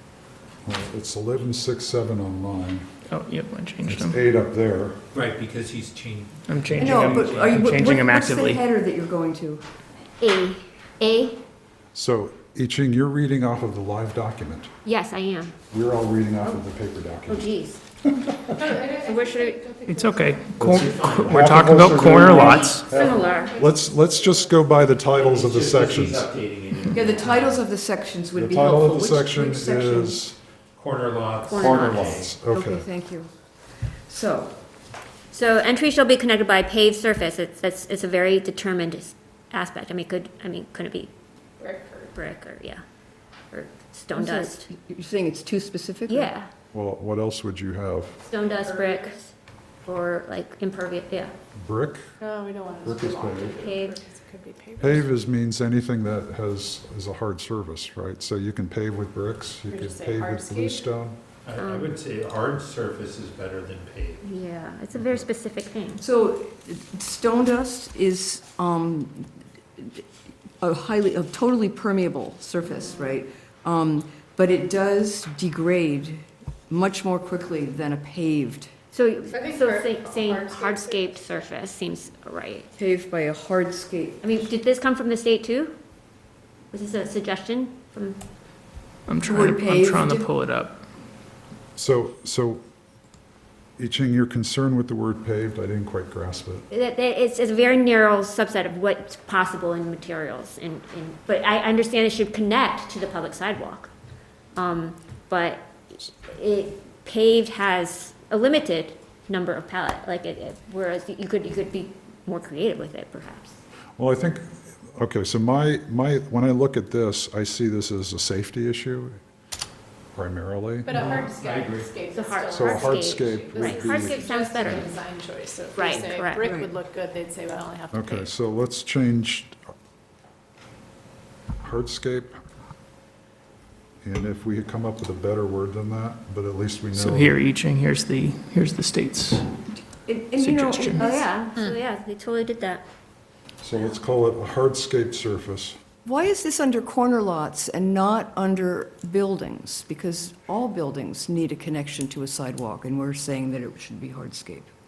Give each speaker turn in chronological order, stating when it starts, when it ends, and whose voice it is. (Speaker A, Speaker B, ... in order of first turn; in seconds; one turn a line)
Speaker A: 0.7-2.9
Speaker B: 3.1-4.2
Speaker A: 3.8-5.0
Speaker C: 5.1-7.6
Speaker B: 6.5-8.7
Speaker D: 6.8-9.6
Speaker E: 10.2-11.4
Speaker A: 11.9-14.7
Speaker E: 14.8-15.6
Speaker A: 15.7-17.5
Speaker E: 17.3-17.8
Speaker A: 18.1-18.8
Speaker F: 18.6-20.5
Speaker E: 18.9-19.7
Speaker B: 19.9-22.9
Speaker A: 20.6-26.3
Speaker C: 20.6-21.7
Speaker E: 22.4-23.6
Speaker F: 22.9-24.5
Speaker C: 25.1-27.6
Speaker D: 26.9-30.2
Speaker A: 28.3-30.4
Speaker C: 30.8-32.4
Speaker E: 31.5-32.2
Speaker A: 31.6-32.9
Speaker D: 32.5-33.3
Speaker D: 34.1-34.5
Speaker E: 35.3-41.1
Speaker F: 41.6-42.1
Speaker E: 42.1-42.8
Speaker E: 43.5-44.7
Speaker D: 44.1-46.3
Speaker E: 46.1-46.5
Speaker A: 46.7-48.2
Speaker E: 48.2-49.3
Speaker F: 48.4-49.2
Speaker E: 49.8-51.3
Speaker A: 51.6-52.1
Speaker F: 52.2-55.1
Speaker A: 52.8-53.7
Speaker E: 53.6-54.0
Speaker A: 54.8-61.2
Speaker F: 59.7-60.9
Speaker C: 61.5-64.2
Speaker E: 61.6-61.9
Speaker E: 64.2-66.0
Speaker D: 66.0-70.0
Speaker D: 70.6-78.7
Speaker E: 78.9-82.7
Speaker F: 79.3-81.4
Speaker D: 82.8-84.2
Speaker E: 84.2-85.8
Speaker E: 86.7-88.2
Speaker B: 89.1-90.8
Speaker D: 89.2-90.3
Speaker A: 91.8-92.6
Speaker A: 93.8-96.7
Speaker E: 96.7-103.9
Speaker E: 104.5-113.6
Speaker A: 114.0-119.2
Speaker A: 120.2-121.2
Speaker F: 120.8-128.3
Speaker C: 120.9-122.0
Speaker E: 122.1-125.0
Speaker A: 122.5-124.8
Speaker E: 125.8-126.4
Speaker D: 126.4-126.7
Speaker A: 127.9-129.7
Speaker A: 131.6-132.4
Speaker A: 134.0-137.4
Speaker B: 136.9-139.5
Speaker D: 140.1-141.3
Speaker B: 140.4-141.0
Speaker E: 141.0-142.8
Speaker A: 143.6-145.8
Speaker D: 146.1-154.7